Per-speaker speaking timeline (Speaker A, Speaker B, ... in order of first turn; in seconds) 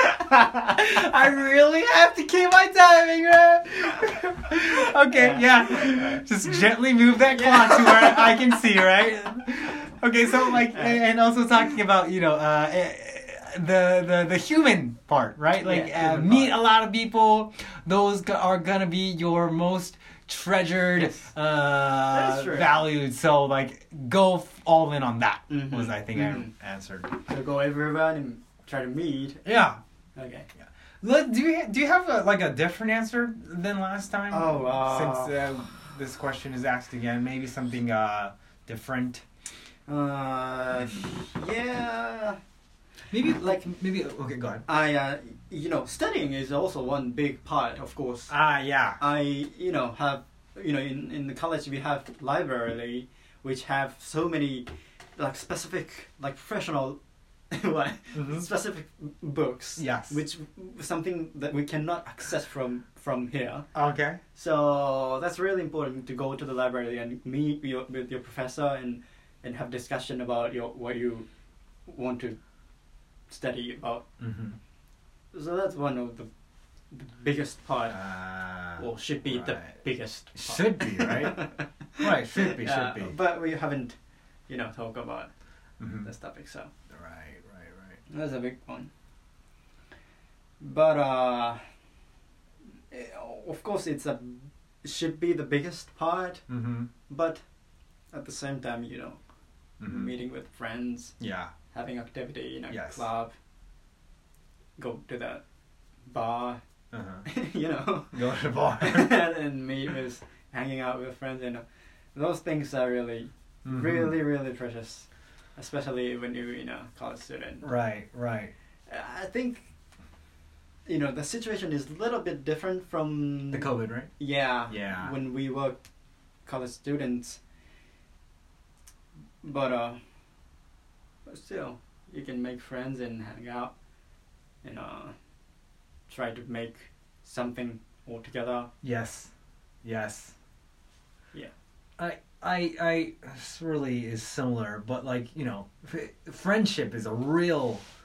Speaker A: 0.5-27.1, 29.4-29.8, 31.0-39.2, 43.1-44.6, 48.3-49.0, 58.1-58.5, 59.8-60.2, 63.7-64.2, 74.2-74.6, 77.9-79.7, 80.4-81.4, 82.0-83.2, 85.8-86.1, 86.9-88.0, 96.5-96.9, 99.8-100.1, 101.2-101.5, 102.7-103.1, 106.9-107.2, 108.1-109.2, 113.7-114.2, 117.6-118.5, 123.5-124.1, 124.7-125.1, 138.8-139.3, 139.8-140.3, 142.0-147.8
Speaker B: 5.1-6.2, 7.3-8.4, 10.7-11.0, 15.6-16.6, 21.0-21.3, 22.1-22.8, 25.5-26.5, 27.2-29.4, 30.1-30.5, 34.3-35.3, 39.9-42.4, 44.6-48.3, 49.0-57.0, 57.5-63.7, 64.3-71.3, 71.8-72.4, 73.3-74.0, 75.3-76.3, 76.9-78.0, 78.8-83.9, 84.5-85.3, 86.0-86.7, 88.1-88.9, 90.6-91.6, 92.9-96.4, 97.1-97.4, 98.1-99.2, 99.9-101.2, 101.7-103.3, 104.8-105.4, 106.1-106.6, 107.2-117.7, 118.9-119.7, 120.8-125.8, 126.5-127.4, 129.4-130.0, 131.2-133.7, 134.6-135.1, 136.1-138.7